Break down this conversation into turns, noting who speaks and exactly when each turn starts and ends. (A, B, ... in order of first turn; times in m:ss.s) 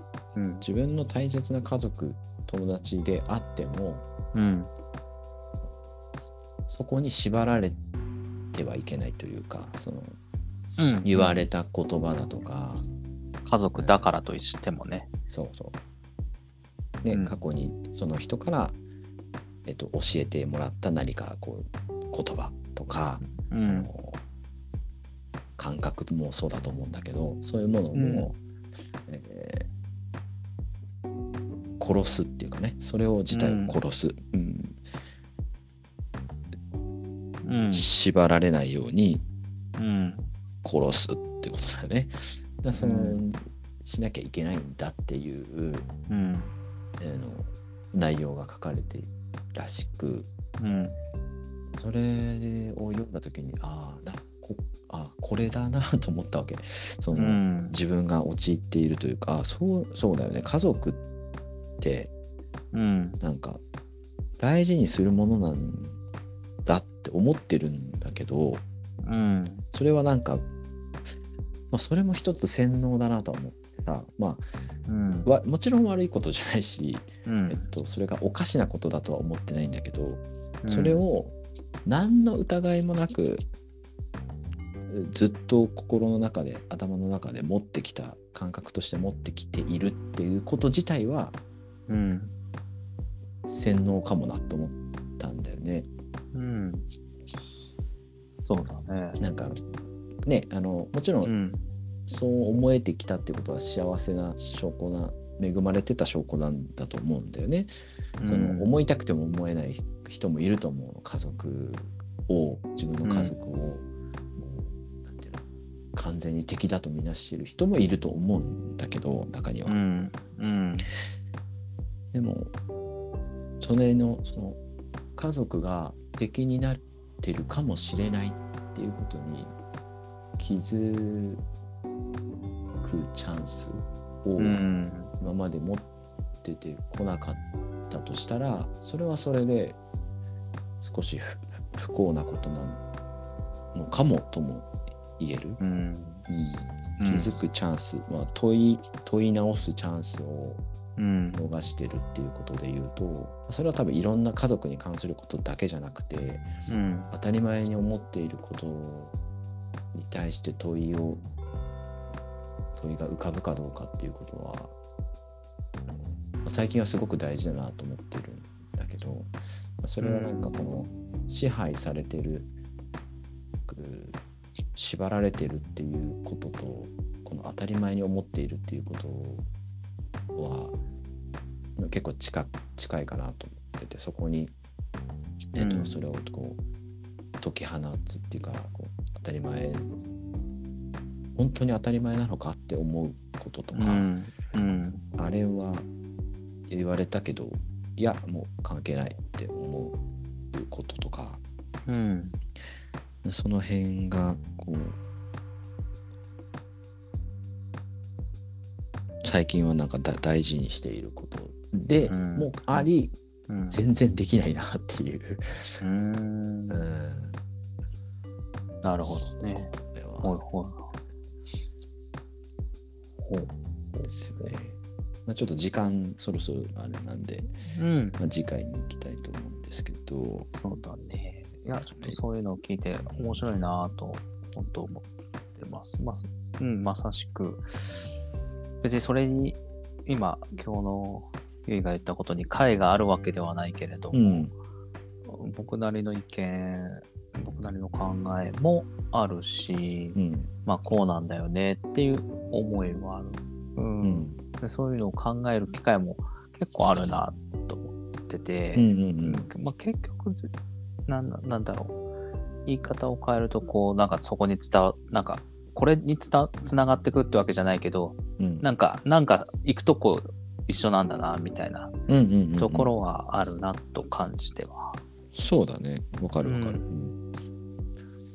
0:00.4-0:00.7 A
0:00.6-0:04.1 B
0:04.3-0:04.7 A
0:06.7-0:07.8 B
0:08.5-0:10.2 B
0:10.8-0:11.4 A
0:11.0-0:12.9 B
0:13.4-0:15.1 A
0:13.8-0:14.1 B
0:15.3-0:15.8 B
0:17.0-0:18.8 B
0:17.1-0:17.4 A
0:19.6-0:24.2 B
0:23.3-0:23.9 A
0:25.6-0:28.4 B
0:27.9-0:28.3 A
0:29.1-0:29.7 B
0:31.8-0:34.8 B
0:33.3-0:33.8 A
0:37.4-0:37.9 A
0:37.7-0:39.2 B
0:39.8-0:40.3 A
0:40.6-0:45.9 B
0:42.8-0:43.2 A
0:46.1-0:46.5 A
0:47.0-0:50.3 B
0:50.6-0:51.0 A
0:51.7-1:01.0 B
0:57.1-0:57.8 A
1:01.8-1:02.1 B
1:02.7-1:03.2 A
1:03.2-1:03.6 B
1:04.4-1:06.0 B
1:06.7-1:08.6 B
1:09.0-1:09.6 A
1:09.7-1:10.4 B
1:11.7-1:14.4 B
1:14.9-1:15.3 A
1:15.2-1:23.4 B
1:17.3-1:17.7 A
1:20.6-1:21.0 A
1:24.9-1:31.4 B
1:31.9-1:32.3 A
1:33.5-1:35.9 B
1:36.3-1:36.9 A
1:38.2-1:39.2 A
1:39.2-1:39.6 B
1:40.2-1:41.3 B
1:41.2-1:41.6 A
1:42.1-1:47.7 B
1:48.2-1:48.7 A
1:48.2-1:55.4 B
1:53.0-1:53.4 A
1:55.9-1:59.8 B
1:59.7-2:00.9 A
2:02.1-2:02.5 B
2:03.6-2:04.6 B
2:05.2-2:09.6 B
2:10.4-2:11.4 B
2:12.8-2:14.6 B
2:14.4-2:15.1 A
2:15.2-2:15.9 B
2:16.4-2:19.8 B
2:20.8-2:22.8 B
2:23.7-2:25.6 B
2:25.6-2:26.2 A
2:26.3-2:30.6 B
2:27.0-2:27.4 A
2:31.0-2:31.4 A
2:31.3-2:36.5 B
2:36.7-2:37.1 A
2:37.1-2:39.2 B
2:39.9-2:41.3 B
2:42.8-2:44.8 B
2:45.9-2:52.5 B
2:50.0-2:50.6 A
2:53.7-2:54.2 B
2:54.8-2:59.5 B
3:00.4-3:00.8 B
3:01.8-3:04.5 B
3:05.5-3:06.6 B
3:05.6-3:06.0 A
3:07.4-3:09.9 B
3:11.4-3:14.1 B
3:13.7-3:15.0 A
3:15.2-3:15.9 B
3:16.7-3:20.0 B
3:20.5-3:21.4 B
3:21.9-3:22.4 A
3:23.2-3:25.0 B
3:29.2-3:33.2 B
3:32.1-3:32.9 A
3:33.5-3:33.8 A
3:33.7-3:35.8 B
3:35.8-3:36.8 A
3:36.7-3:37.4 B
3:38.8-3:41.0 A
3:39.6-3:40.4 B
3:43.2-3:44.5 A
3:44.0-3:47.5 B
3:47.7-3:48.2 A
3:48.2-3:50.5 B
3:50.5-3:57.7 A
3:51.7-3:52.2 B
3:53.2-3:53.5 B
3:58.8-4:04.5 A
4:04.1-4:04.5 B
4:05.3-4:20.5 A
4:10.2-4:10.5 B
4:14.0-4:14.4 B
4:18.8-4:19.5 B
4:21.1-4:22.0 A
4:22.7-4:31.9 A
4:28.4-4:28.7 B
4:32.1-4:32.9 B
4:32.6-4:35.1 A
4:35.4-4:37.2 B
4:36.4-4:36.9 A